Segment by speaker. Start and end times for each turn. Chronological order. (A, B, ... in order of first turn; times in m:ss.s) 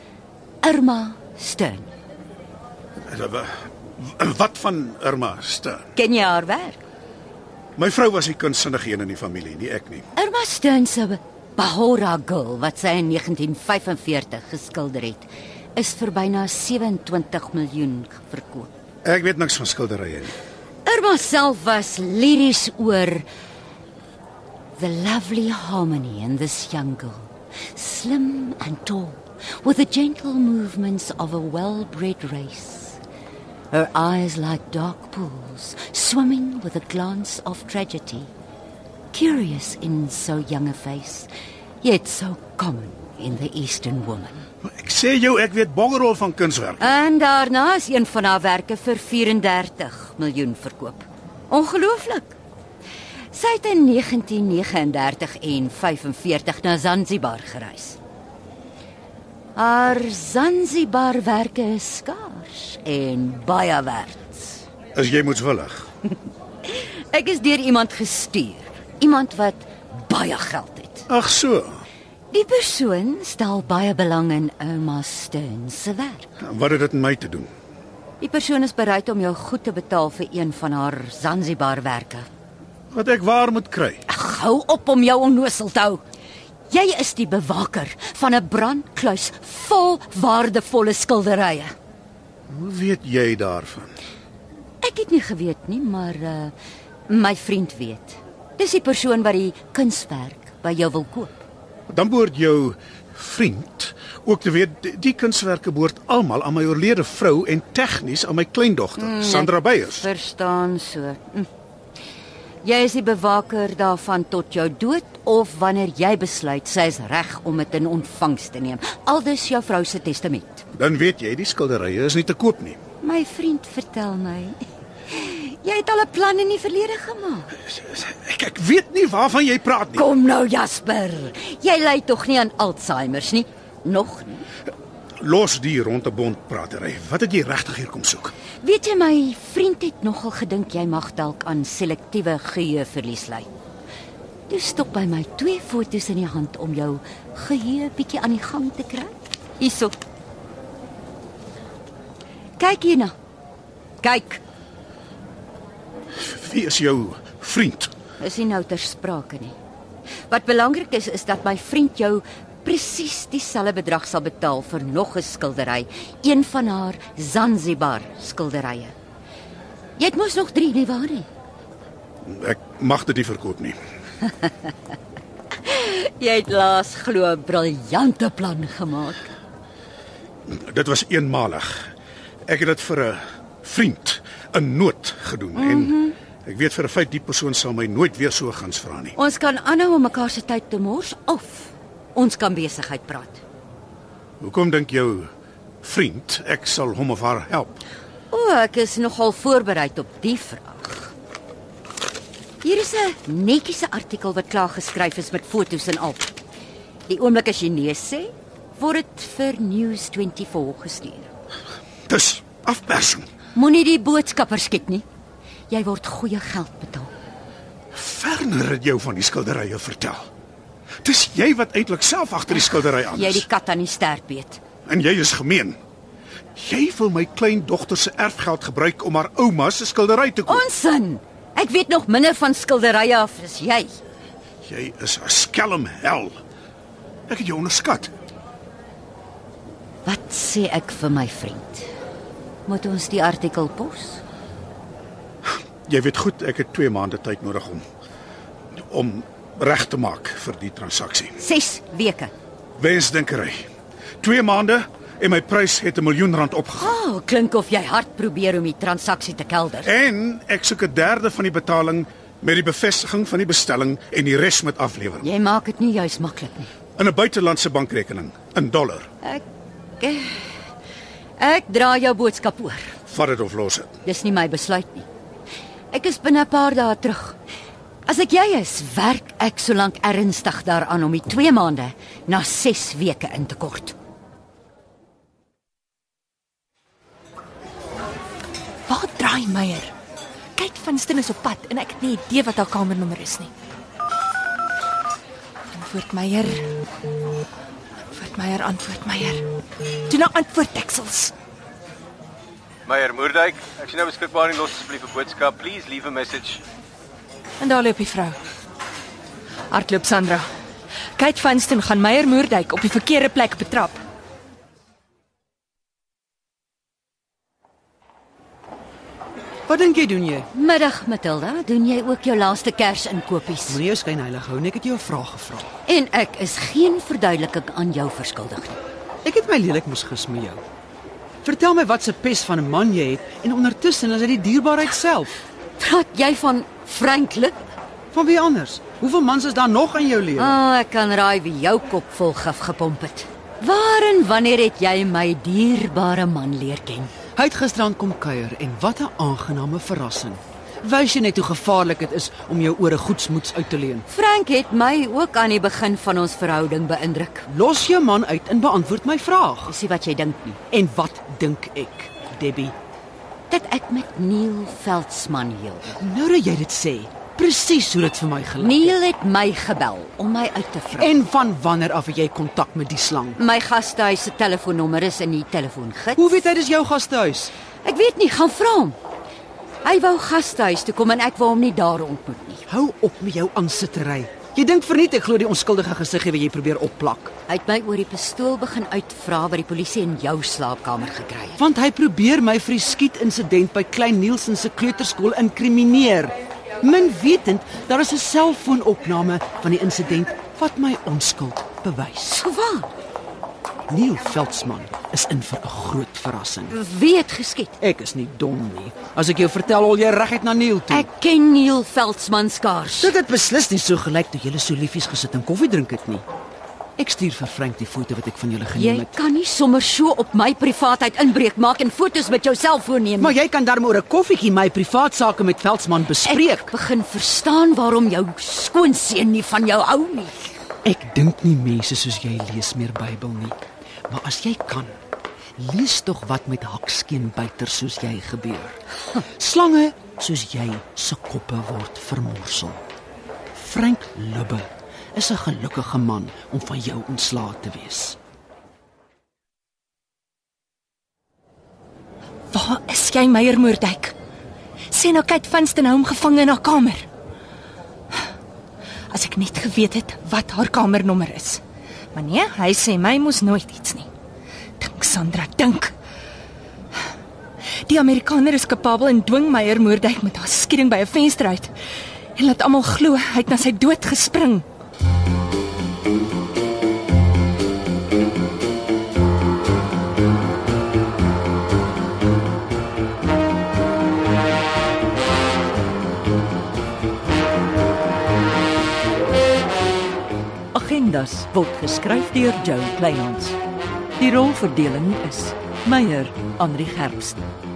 0:00.6-0:01.9 A
0:03.1-0:05.8 B
0:06.0-0:06.8 A
0:07.8-0:10.0 B
0:10.2-0:18.7 A
0:19.0-0:20.3 B
0:20.8-0:23.3 A
0:24.8-0:33.0 A
0:33.7-0:38.3 A
0:39.1-0:41.3 A
0:41.8-0:44.4 A
0:44.6-0:46.9 B
0:46.8-0:52.3 A
0:53.3-0:58.0 A
0:59.6-1:04.6 A
1:05.0-1:05.9 B
1:06.7-1:11.0 A
1:11.1-1:11.7 B
1:12.3-1:16.3 A
1:16.4-1:17.5 B
1:18.2-1:22.3 A
1:22.9-1:24.0 B
1:24.1-1:26.0 A
1:26.7-1:31.7 A
1:32.5-1:33.9 B
1:34.8-1:36.5 A
1:37.1-1:41.3 A
1:41.9-1:50.1 B
1:49.0-1:51.5 A
1:52.6-2:00.6 A
2:00.8-2:02.8 B
2:03.0-2:07.5 A
2:07.8-2:10.0 B
2:09.9-2:14.5 A
2:15.2-2:18.3 B
2:18.6-2:23.5 A
2:24.5-2:29.9 A
2:32.6-2:33.1 A
2:34.0-2:34.4 A
2:36.2-2:37.9 B
2:38.2-2:39.5 A
2:40.3-2:48.9 A
2:50.0-2:51.3 A
2:52.2-2:53.8 B
2:55.6-2:59.3 A
3:00.5-3:01.8 B
3:02.5-3:09.1 B
3:05.5-3:06.2 A
3:09.2-3:13.4 A
3:14.4-3:15.3 B
3:15.8-3:17.8 B
3:18.3-3:21.1 A
3:22.6-3:26.4 A
3:27.1-3:31.3 A
3:32.1-3:33.3 B
3:33.5-3:35.0 A
3:35.7-3:37.1 A
3:37.9-3:40.2 B
3:41.0-3:43.4 B
3:42.5-3:44.6 A
3:44.8-3:45.8 B
3:46.6-3:50.6 B
3:50.5-3:54.0 A
3:54.6-3:56.4 B
3:57.3-3:58.1 B
4:00.0-4:01.9 A
4:02.6-4:04.2 A
4:05.8-4:07.8 B
4:08.9-4:11.4 B
4:11.4-4:12.3 A
4:12.8-4:13.7 B
4:14.2-4:17.0 B
4:16.8-4:19.9 A
4:19.8-4:25.3 B
4:25.2-4:26.7 A
4:27.0-4:29.1 B
4:30.0-4:30.4 A
4:31.4-4:32.9 A
4:33.1-4:33.9 B
4:34.0-4:35.0 A
4:35.9-4:37.4 A
4:38.0-4:43.9 A
4:48.9-4:49.9 C
4:50.6-4:53.5 C
4:55.7-4:56.8 C
4:58.1-4:59.4 C
5:00.1-5:01.3 C
5:02.9-5:06.6 D
5:07.6-5:08.4 C
5:09.7-5:10.4 C
5:11.2-5:14.0 C
5:19.7-5:20.5 E
5:20.5-5:23.8 A
5:23.7-5:25.7 E
5:25.9-5:28.8 A
5:29.2-5:30.6 E
5:31.4-5:35.3 E
5:35.8-5:37.6 A
5:38.1-5:40.6 E
5:40.4-5:47.1 A
5:47.4-5:54.0 E
5:54.1-5:57.5 A
5:57.5-5:59.7 E
5:59.7-6:00.6 A
6:00.7-6:02.7 E
6:03.5-6:06.0 A
6:06.0-6:08.9 E
6:08.6-6:11.1 A
6:11.0-6:13.4 E
6:13.4-6:16.4 A
6:16.2-6:17.5 E
6:17.8-6:19.0 A
6:19.8-6:22.6 A
6:22.7-6:27.3 E
6:27.5-6:31.6 A
6:31.6-6:42.4 E
6:42.4-6:42.9 A
6:43.9-6:46.7 E
6:46.7-6:47.8 A
6:47.8-6:51.1 E
6:50.9-6:53.1 A
6:53.0-6:56.2 E
6:57.0-6:59.1 E
6:58.7-7:03.4 A
7:03.2-7:06.7 E
7:06.2-7:10.6 A
7:10.8-7:15.0 E
7:15.6-7:18.8 E
7:19.4-7:22.8 E
7:23.5-7:28.2 E
7:32.5-7:34.1 C
7:34.9-7:37.1 C
7:39.1-7:41.6 C
7:42.1-7:44.1 C
7:44.8-7:45.9 C
7:47.8-7:51.7 C
7:52.4-7:54.6 C
8:10.7-8:13.6 F
8:14.2-8:17.4 F